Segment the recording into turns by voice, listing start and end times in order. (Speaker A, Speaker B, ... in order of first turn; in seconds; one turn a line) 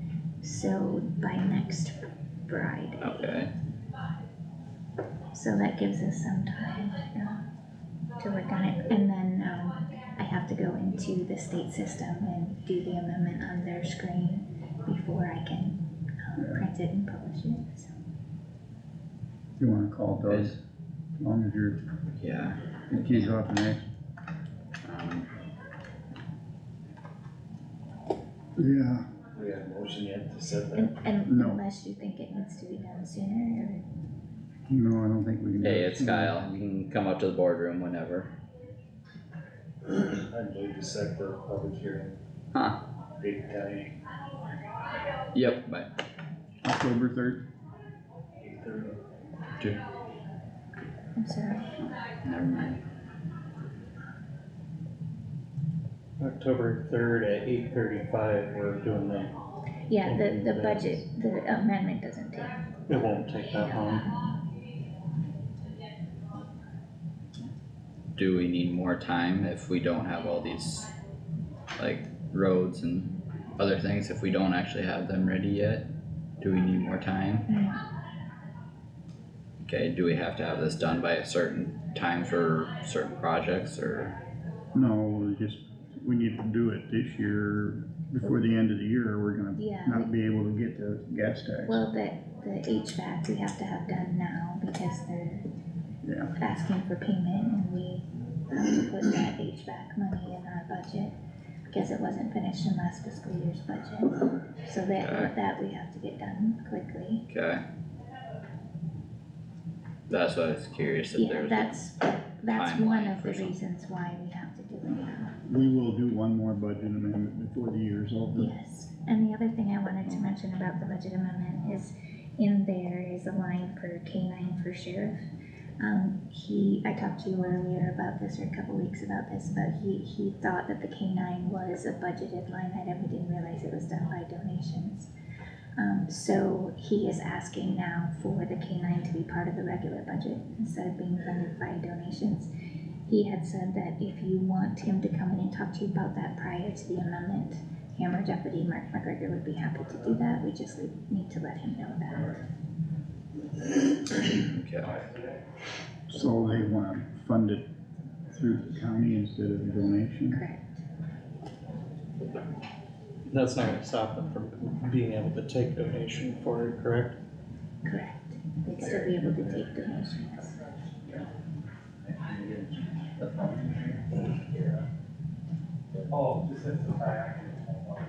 Speaker A: 0.4-3.3
Speaker B: 3.0-3.5
Speaker A: 5.3-7.4
Speaker A: 8.2-17.9
Speaker C: 16.4-16.6
Speaker C: 19.6-20.6
Speaker B: 20.3-20.6
Speaker C: 21.2-21.8
Speaker B: 22.2-23.3
Speaker C: 22.9-23.9
Speaker B: 24.8-25.3
Speaker C: 28.6-29.1
Speaker D: 29.4-30.9
Speaker A: 30.8-33.9
Speaker C: 31.3-31.6
Speaker C: 34.7-36.4
Speaker B: 35.6-38.3
Speaker D: 39.9-42.2
Speaker B: 42.5-42.8
Speaker D: 43.2-44.0
Speaker B: 45.3-45.9
Speaker C: 46.6-47.4
Speaker D: 48.4-49.0
Speaker A: 51.2-51.8
Speaker B: 52.2-52.8
Speaker E: 56.2-59.3
Speaker A: 59.9-62.6
Speaker E: 60.0-61.0
Speaker E: 62.9-64.1
Speaker B: 68.2-70.9
Speaker B: 71.8-75.9
Speaker B: 76.4-77.5
Speaker A: 77.5-77.8
Speaker B: 79.6-84.2
Speaker C: 84.7-91.8
Speaker A: 89.6-90.1
Speaker A: 91.7-95.5
Speaker C: 96.0-96.3
Speaker A: 96.4-101.2
Speaker A: 101.7-107.3
Speaker B: 105.0-105.3
Speaker B: 107.3-107.6
Speaker B: 110.1-111.8
Speaker A: 111.2-115.3
Speaker B: 112.5-113.5
Speaker C: 115.5-118.5
Speaker A: 118.4-125.2
Speaker A: 125.8-135.1
Speaker A: 135.8-142.5
Speaker A: 143.1-152.4
Speaker B: 154.5-155.0
Speaker C: 156.1-157.7
Speaker C: 158.3-160.4
Speaker A: 160.3-160.8
Speaker E: 163.3-167.2
Speaker A: 167.8-170.6
Speaker B: 172.1-174.7